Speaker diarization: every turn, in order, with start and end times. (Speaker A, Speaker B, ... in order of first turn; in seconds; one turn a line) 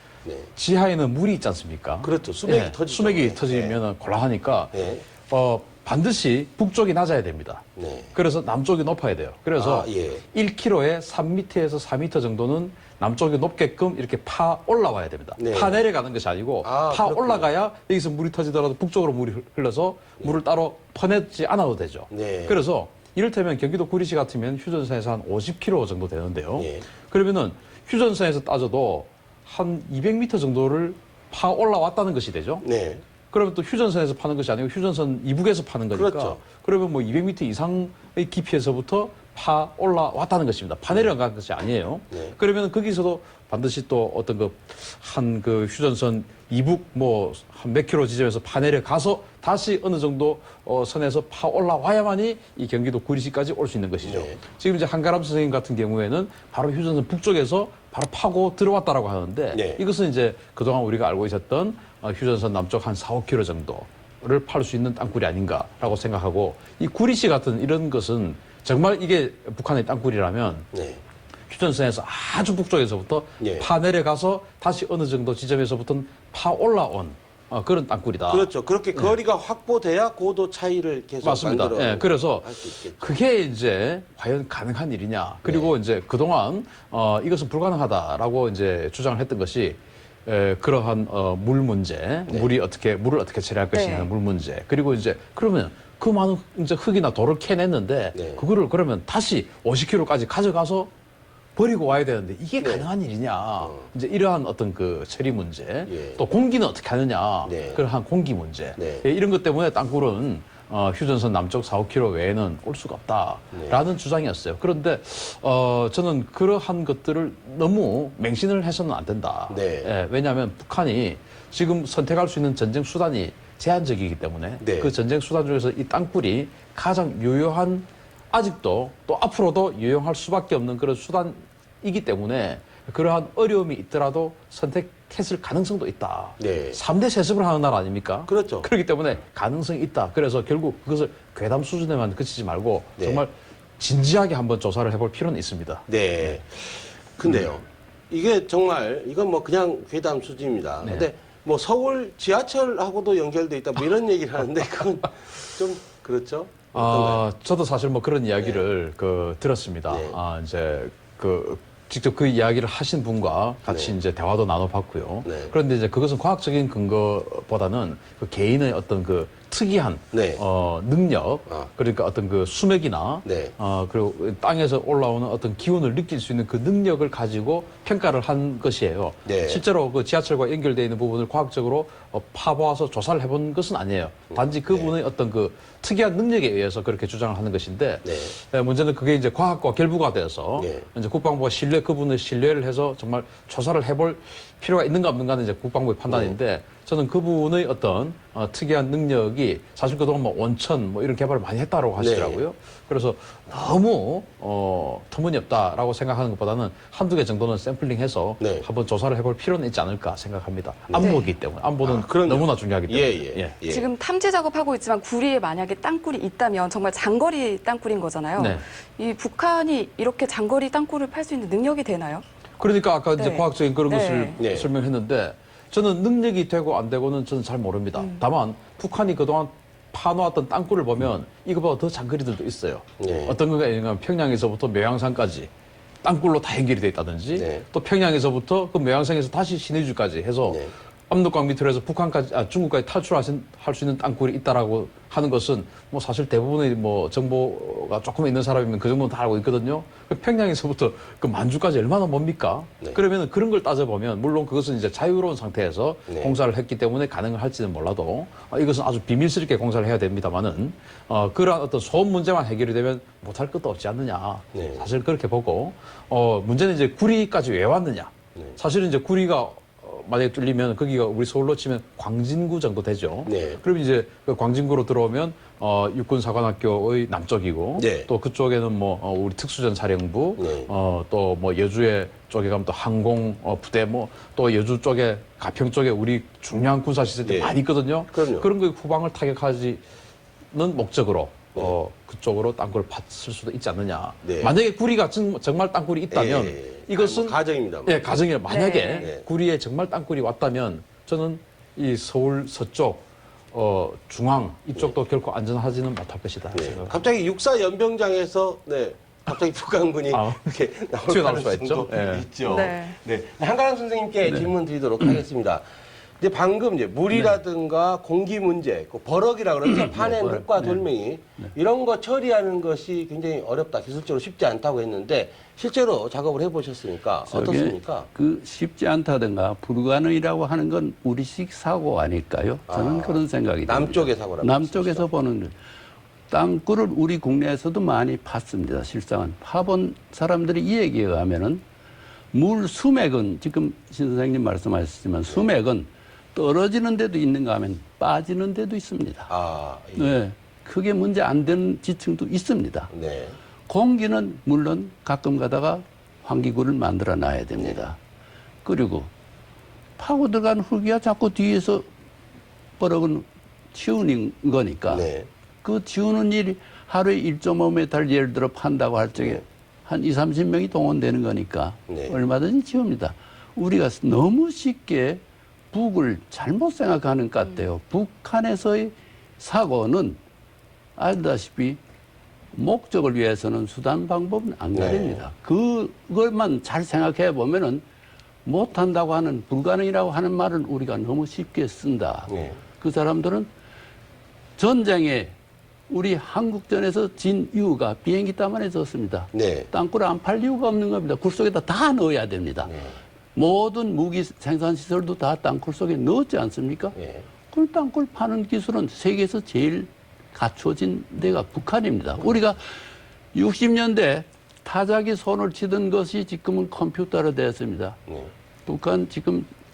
Speaker A: 0.6-7.6
Speaker B: 2.0-3.8
Speaker B: 4.7-5.1
Speaker B: 7.8-8.1
Speaker A: 8.2-32.6
Speaker B: 9.6-10.2
Speaker B: 15.4-15.8
Speaker B: 16.6-17.5
Speaker B: 22.1-22.6
Speaker B: 26.6-26.9
Speaker B: 32.6-33.0
Speaker A: 33.3-70.7
Speaker B: 35.9-36.4
Speaker B: 54.0-54.4
Speaker B: 59.5-59.8
Speaker B: 70.7-71.0
Speaker A: 71.5-79.1
Speaker B: 73.4-73.7
Speaker B: 78.3-83.1
Speaker A: 81.2-100.9
Speaker B: 85.5-85.7
Speaker B: 92.3-92.5
Speaker C: 93.7-94.1
Speaker B: 98.1-98.5
Speaker A: 101.6-146.4
Speaker B: 102.6-102.9
Speaker B: 105.9-106.2
Speaker B: 107.5-107.8
Speaker B: 108.8-109.1
Speaker B: 113.5-113.8
Speaker B: 119.5-119.9
Speaker B: 124.6-124.9
Speaker B: 136.4-136.8
Speaker B: 138.3-138.7
Speaker B: 143.0-143.2
Speaker B: 145.9-157.2
Speaker A: 156.7-213.6
Speaker B: 158.4-158.7
Speaker B: 159.9-160.2
Speaker B: 163.7-164.0
Speaker B: 165.2-165.5
Speaker B: 170.1-170.4
Speaker B: 173.2-173.5
Speaker B: 179.3-179.6
Speaker B: 184.3-185.0
Speaker B: 188.1-188.3
Speaker B: 190.6-190.9
Speaker B: 196.1-196.4
Speaker B: 202.0-202.4
Speaker B: 208.4-208.7
Speaker B: 210.9-211.2
Speaker C: 211.0-211.3
Speaker B: 211.8-213.9
Speaker C: 213.6-222.2
Speaker A: 218.4-218.7
Speaker A: 222.6-235.5
Speaker C: 223.2-224.4
Speaker B: 224.4-224.7
Speaker C: 228.0-228.2
Speaker B: 233.0-233.4
Speaker A: 236.0-289.8
Speaker B: 237.3-237.7
Speaker B: 240.5-240.7
Speaker B: 256.1-256.4
Speaker B: 264.5-264.9
Speaker B: 273.3-273.6
Speaker B: 277.8-278.1
Speaker B: 280.4-280.7
Speaker B: 287.2-287.6
Speaker B: 288.1-288.5
Speaker A: 290.5-307.0
Speaker B: 294.2-294.6
Speaker B: 296.1-298.3
Speaker C: 298.5-299.1
Speaker B: 299.0-299.2
Speaker B: 306.5-315.6
Speaker A: 310.1-312.3
Speaker C: 312.4-313.0
Speaker B: 316.2-328.1
Speaker D: 319.6-320.8
Speaker D: 327.3-335.6
Speaker B: 332.7-335.1
Speaker D: 336.3-341.6
Speaker D: 342.3-349.3
Speaker B: 349.3-350.2
Speaker D: 350.0-352.9
Speaker B: 352.9-353.4
Speaker D: 353.7-358.0
Speaker D: 358.6-359.1
Speaker D: 360.0-361.9
Speaker D: 362.8-365.1
Speaker B: 364.9-365.3
Speaker D: 365.6-380.2
Speaker B: 371.9-372.2
Speaker D: 381.0-381.8
Speaker D: 382.5-387.9
Speaker B: 384.7-385.2
Speaker D: 388.4-393.5
Speaker B: 392.3-392.6
Speaker D: 394.6-395.4
Speaker D: 395.9-402.7
Speaker B: 399.3-399.7
Speaker B: 402.7-403.0
Speaker D: 403.4-406.9
Speaker B: 406.9-407.3
Speaker D: 407.5-412.6
Speaker D: 413.3-418.0
Speaker B: 418.1-418.3
Speaker D: 418.7-419.5